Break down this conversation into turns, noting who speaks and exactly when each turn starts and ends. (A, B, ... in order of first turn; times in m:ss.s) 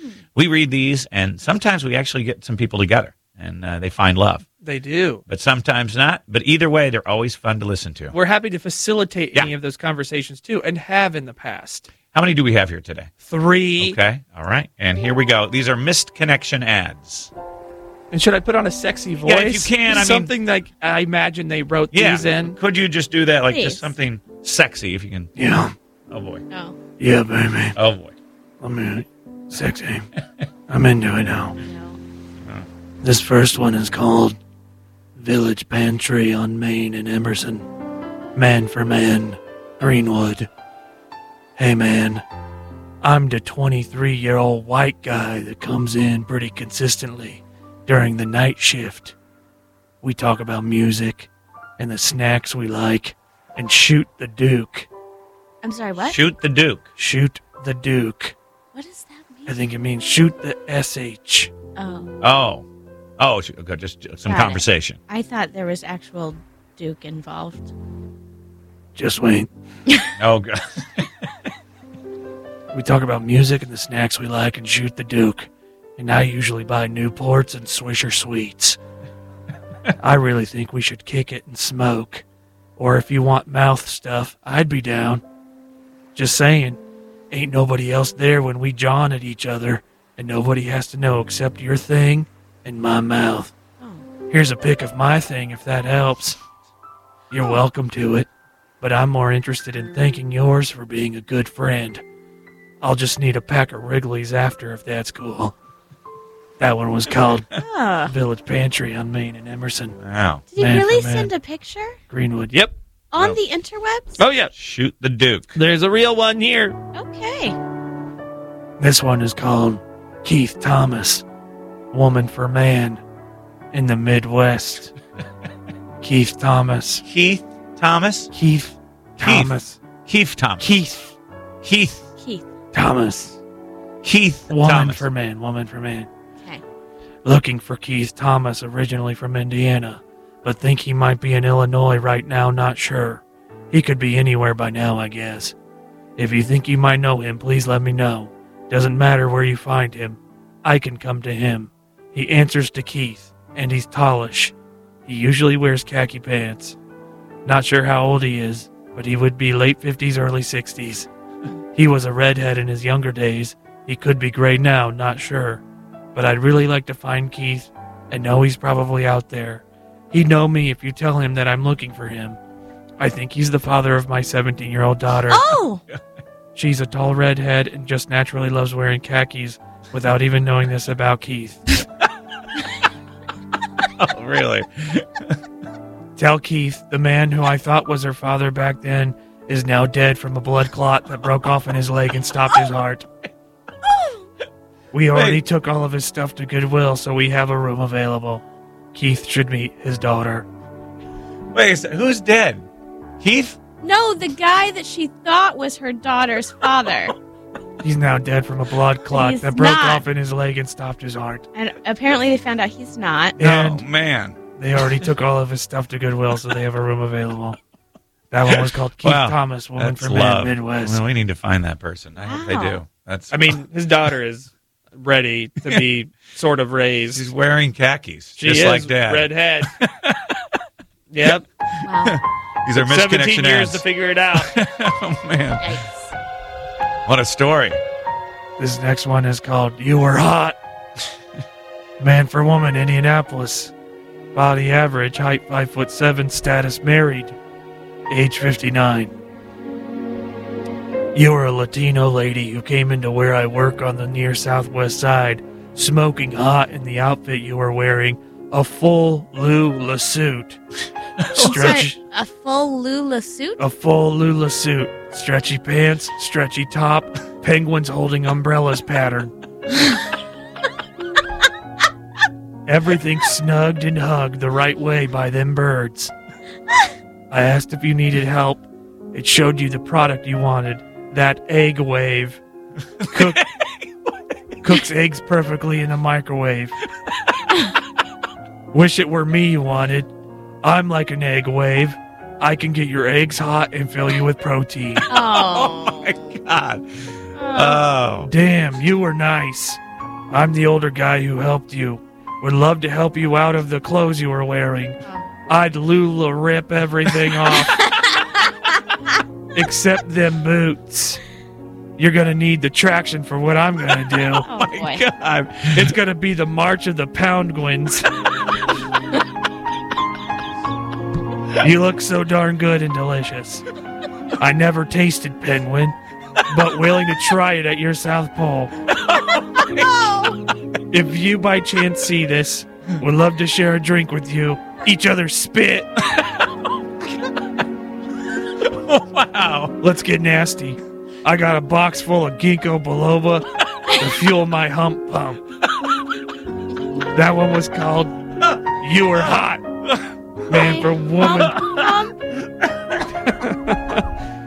0:00.4-0:04.5 A
0:04.9-0:05.2 B
0:05.3-0:08.2 A
0:08.1-0:11.9 B
0:12.1-0:13.1 A
0:13.2-0:14.0 B
0:13.8-0:17.3 A
0:18.1-0:22.6 B
0:19.2-0:20.3 A
0:21.9-0:25.3 A
0:23.5-0:23.9 C
0:25.4-0:25.7 D
0:26.1-0:26.4 A
0:26.5-0:26.8 C
0:27.0-0:27.8 D
0:27.8-0:28.2 A
0:28.6-0:30.0 D
0:30.7-0:31.6 D
0:31.6-0:32.0 C
0:33.0-0:34.4 D
0:35.2-0:37.7 D
0:38.4-0:40.5 D
0:41.6-0:42.2 D
0:43.0-0:49.2 D
0:50.0-0:54.9 D
0:55.6-0:56.2 C
0:56.0-0:56.8 A
0:57.0-0:58.4 D
0:58.8-0:59.6 C
0:59.5-1:01.5 D
1:01.8-1:02.1 C
1:02.2-1:02.7 A
1:03.2-1:05.0 A
1:04.2-1:07.7 C
1:09.0-1:09.5 D
1:10.2-1:11.1 A
1:12.7-1:18.8 D
1:20.0-1:22.2 D
1:22.8-1:25.2 D
1:26.2-1:26.8 D
1:27.3-1:33.5 D
1:33.8-1:34.1 C
1:34.3-1:36.4 D
1:37.3-1:38.3 D
1:38.8-1:42.0 D
1:42.8-1:45.5 D
1:46.6-1:47.5 D
1:47.6-1:48.1 C
1:48.1-1:50.0 D
1:50.0-1:50.4 A
1:50.5-1:52.0 C
1:50.6-1:51.3 D
1:52.1-1:52.7 D
1:53.1-1:54.2 C
1:54.2-1:54.5 B
1:54.5-1:55.6 A
1:55.6-1:56.8 B
1:56.9-1:57.6 C
1:58.8-2:01.2 D
2:01.9-2:03.0 D
2:03.7-2:04.9 D
2:06.0-2:07.0 D
2:07.0-2:08.3 A
2:08.3-2:09.8 D
2:09.2-2:10.7 A
2:10.6-2:11.2 D
2:11.6-2:12.0 A
2:12.2-2:12.4 C
2:12.7-2:13.4 D
2:14.0-2:15.1 A
2:14.5-2:16.1 D
2:17.2-2:25.6 D
2:26.2-2:34.5 D
2:35.1-2:36.8 D
2:37.4-2:41.1 D
2:41.8-2:45.6 D
2:46.1-2:52.4 D
2:53.0-2:55.4 D
2:55.3-2:55.8 C
2:56.6-3:01.6 D
3:03.8-3:05.3 A
3:06.2-3:13.1 D
3:13.8-3:14.3 C
3:14.9-3:18.4 D
3:15.1-3:15.4 A
3:18.9-3:20.5 D
3:21.5-3:22.7 A
3:23.2-3:23.6 A
3:23.8-3:27.2 C
3:27.8-3:31.5 D
3:29.0-3:30.1 C
3:31.5-3:33.4 C
3:33.4-3:33.8 D
3:33.4-3:34.4 A
3:34.6-3:37.6 D
3:38.3-3:41.0 D
3:38.5-3:43.6 A
3:42.2-3:42.8 C
3:43.3-3:47.3 B
3:47.1-3:50.4 A
3:48.4-3:49.7 B
3:51.1-3:51.4 B
3:51.8-3:52.2 C
3:52.0-3:55.8 A
3:52.8-3:54.5 B
3:55.6-3:56.1 C
3:57.1-3:57.8 A
3:58.6-4:00.6 D
4:02.0-4:03.7 D
4:04.3-4:07.4 D
4:08.1-4:09.1 D
4:11.2-4:20.6 D
4:21.2-4:21.8 A
4:21.3-4:22.0 D
4:21.4-4:23.7 C
4:23.6-4:29.3 D
4:32.7-4:36.1 D
4:37.3-4:42.4 D
4:43.0-4:43.9 A
4:43.1-4:43.4 D
4:44.6-4:46.8 D
4:48.7-4:50.1 D
4:50.6-4:55.1 D
4:55.1-4:56.3 C
4:55.1-4:56.9 A
4:57.4-4:57.8 C
4:57.5-4:58.3 A
4:58.2-4:59.8 D
5:00.3-5:05.0 D
5:05.5-5:07.8 D
5:07.8-5:08.2 C
5:09.5-5:11.2 D
5:12.0-5:14.5 D
5:14.3-5:15.0 C
5:14.5-5:15.9 A
5:15.7-5:18.1 D
5:21.6-5:23.6 D
5:24.4-5:26.0 D
5:26.5-5:28.7 D
5:29.1-5:30.3 A
5:30.9-5:35.9 D
5:38.6-5:39.8 A
5:39.8-5:43.4 D
5:44.0-5:45.4 D
5:47.1-5:49.6 D
5:50.5-5:51.7 D
5:50.5-5:52.2 C
5:51.4-5:51.8 A
5:53.4-5:54.0 B